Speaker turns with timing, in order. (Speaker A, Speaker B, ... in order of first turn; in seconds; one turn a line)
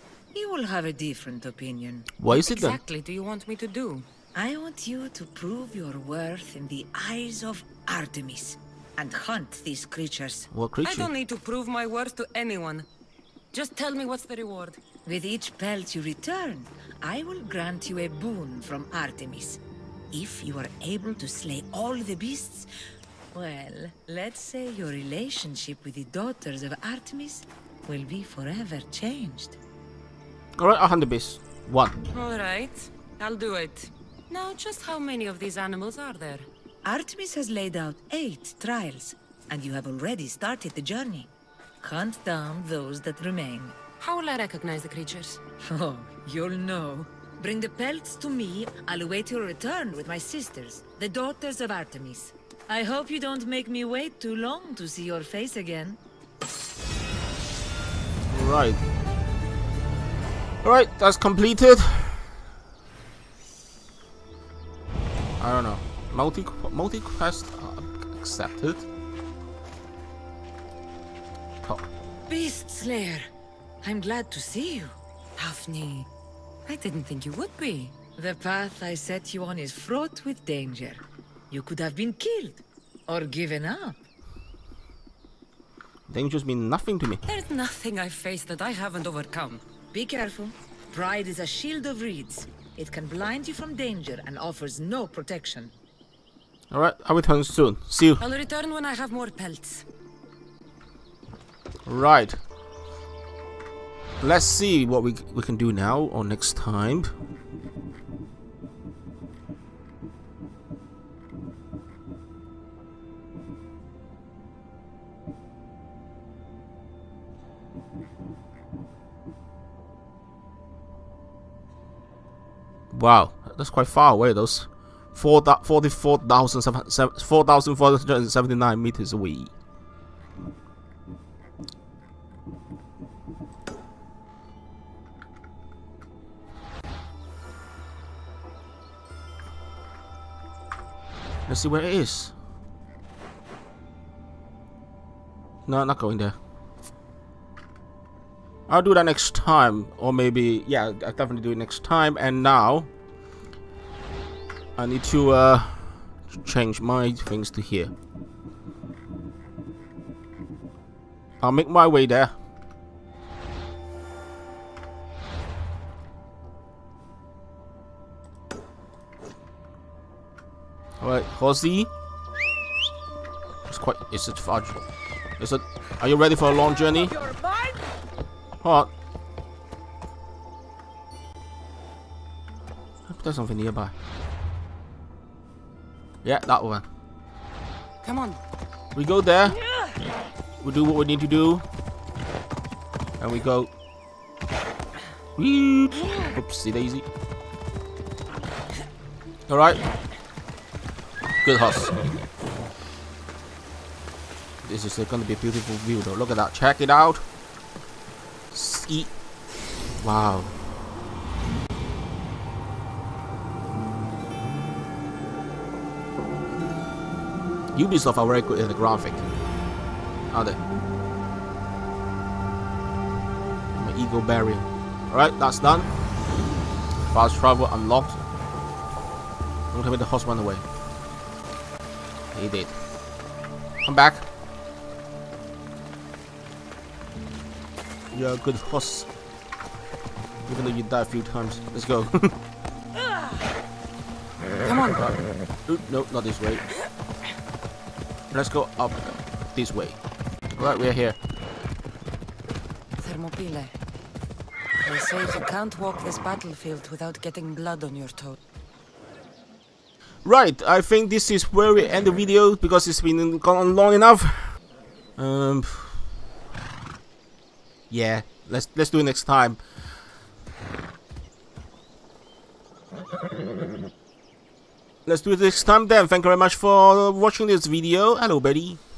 Speaker A: 0.3-2.1
Speaker B: 2.2-2.8
Speaker C: 2.3-4.0
Speaker A: 4.3-10.5
Speaker B: 10.5-11.1
Speaker C: 10.8-12.9
Speaker C: 13.5-14.8
Speaker A: 15.0-19.6
Speaker A: 20.1-22.7
Speaker A: 23.3-29.6
Speaker B: 30.6-31.9
Speaker C: 32.1-36.5
Speaker A: 36.8-41.3
Speaker A: 41.8-43.8
Speaker C: 44.0-45.4
Speaker A: 45.6-56.0
Speaker B: 58.3-58.8
Speaker B: 60.6-62.3
Speaker B: 65.4-68.8
Speaker A: 72.3-73.3
Speaker A: 73.8-74.9
Speaker C: 75.4-76.1
Speaker C: 76.7-78.0
Speaker A: 78.1-84.0
Speaker B: 86.1-87.2
Speaker C: 87.3-89.6
Speaker A: 89.9-95.7
Speaker B: 96.7-98.2
Speaker C: 98.2-99.8
Speaker B: 101.8-102.4
Speaker B: 104.2-107.1
Speaker B: 122.9-129.5
Speaker B: 141.5-142.3
Speaker B: 145.7-146.3
Speaker B: 148.7-152.9
Speaker B: 154.8-157.9
Speaker B: 161.4-162.3
Speaker B: 171.0-171.9
Speaker B: 173.7-174.8
Speaker B: 175.4-177.1
Speaker A: 176.7-177.9
Speaker B: 178.6-178.9
Speaker B: 183.1-183.9
Speaker B: 186.2-186.8
Speaker C: 188.0-188.4
Speaker B: 188.9-189.6
Speaker B: 190.6-191.6
Speaker B: 193.2-193.7
Speaker B: 195.4-197.1
Speaker B: 199.5-199.8
Speaker B: 201.4-201.9
Speaker B: 204.6-207.2
Speaker B: 208.5-209.1
Speaker B: 210.0-210.5
Speaker B: 217.7-219.2
Speaker B: 220.3-220.6
Speaker B: 223.7-225.9
Speaker B: 227.0-228.2
Speaker B: 229.7-230.6
Speaker B: 232.3-232.7
Speaker B: 233.8-234.2
Speaker B: 238.1-239.1
Speaker B: 240.4-242.3
Speaker C: 244.6-245.0
Speaker B: 245.7-246.6
Speaker B: 248.3-249.0
Speaker B: 249.5-250.0
Speaker B: 250.6-251.2
Speaker C: 253.0-253.8
Speaker C: 254.8-258.4
Speaker B: 260.2-264.5
Speaker B: 265.2-266.0
Speaker B: 267.9-269.6
Speaker B: 275.1-278.8